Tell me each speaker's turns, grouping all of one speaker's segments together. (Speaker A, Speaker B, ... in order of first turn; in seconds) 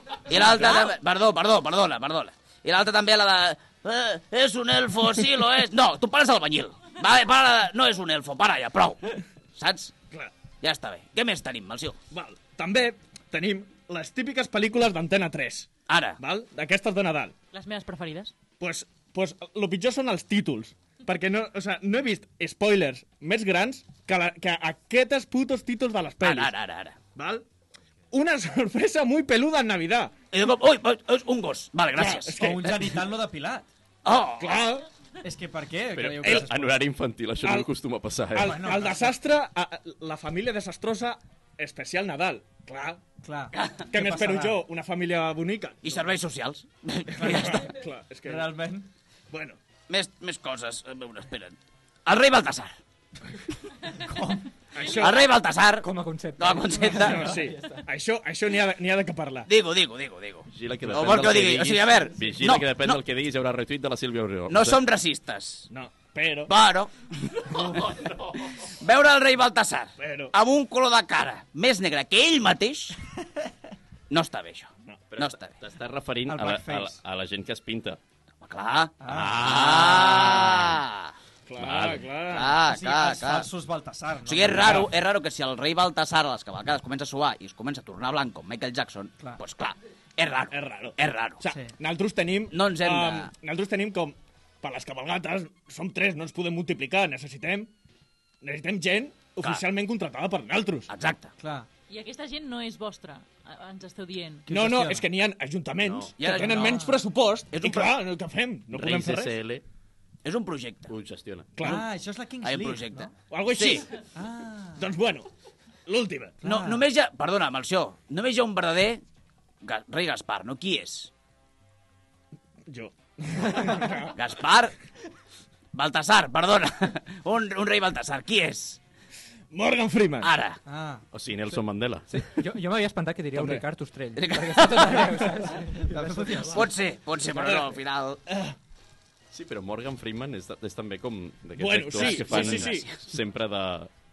Speaker A: 0.3-9.9, 10.6-12.0, 15.9-16.2, 26.2-27.0, 30.3-32.4, 34.0-34.8, 43.5-43.8, 45.8-47.7, 49.9-52.8, 54.9-57.3, 59.5-63.0, 64.5-65.7, 66.5-66.9, 68.8-73.0, 74.1-75.5, 78.4-81.1, 82.3-83.5, 84.2-91.4, 92.5-93.3, 100.9-101.3, 106.2-107.0, 107.5-108.0, 110.2-110.9, 112.4-113.9, 116.4-119.0, 119.6-121.1, 124.1-124.7, 125.7-128.8, 130.2-130.6, 134.1-135.2, 136.5-138.2, 142.0-142.9
Speaker B: 0.4-0.8, 12.1-17.3, 18.6-26.5, 27.1-27.4, 28.1-30.1, 31.9-32.9, 34.4-34.8, 36.2-36.4, 37.4-37.7, 38.3-43.0, 43.9-46.1, 47.1-48.6, 49.3-49.6, 54.7-55.3, 56.9-59.5, 65.7-66.5, 70.0-70.3, 81.5-82.6, 90.5-97.7, 98.4-100.9, 104.5-109.3, 111.5-111.8, 113.2-113.9, 114.8-115.3, 115.8-116.4, 122.7-124.1, 129.5-130.3, 133.3-133.6, 137.3-138.5, 141.6-142.9
Speaker C: 17.5-18.3, 101.9-104.5
Speaker D: 32.4-33.7, 35.2-36.8, 38.4-39.1, 43.2-44.6, 48.2-48.9, 54.0-54.4, 76.2-77.0, 79.0-79.6, 82.6-84.9, 91.5-91.7, 101.4-101.7, 104.5-105.0, 106.2-106.9, 111.6-113.1, 114.1-114.9, 116.4-116.8, 130.7-131.0, 135.5-136.7
Speaker E: 35.9-38.8, 60.5-64.8, 67.5-68.5, 75.1-78.0, 79.1-80.8, 81.6-82.0, 105.8-106.1, 108.7-109.6, 110.9-111.5, 131.1-132.1, 139.3-143.9
Speaker F: 55.8-57.8, 131.5-136.7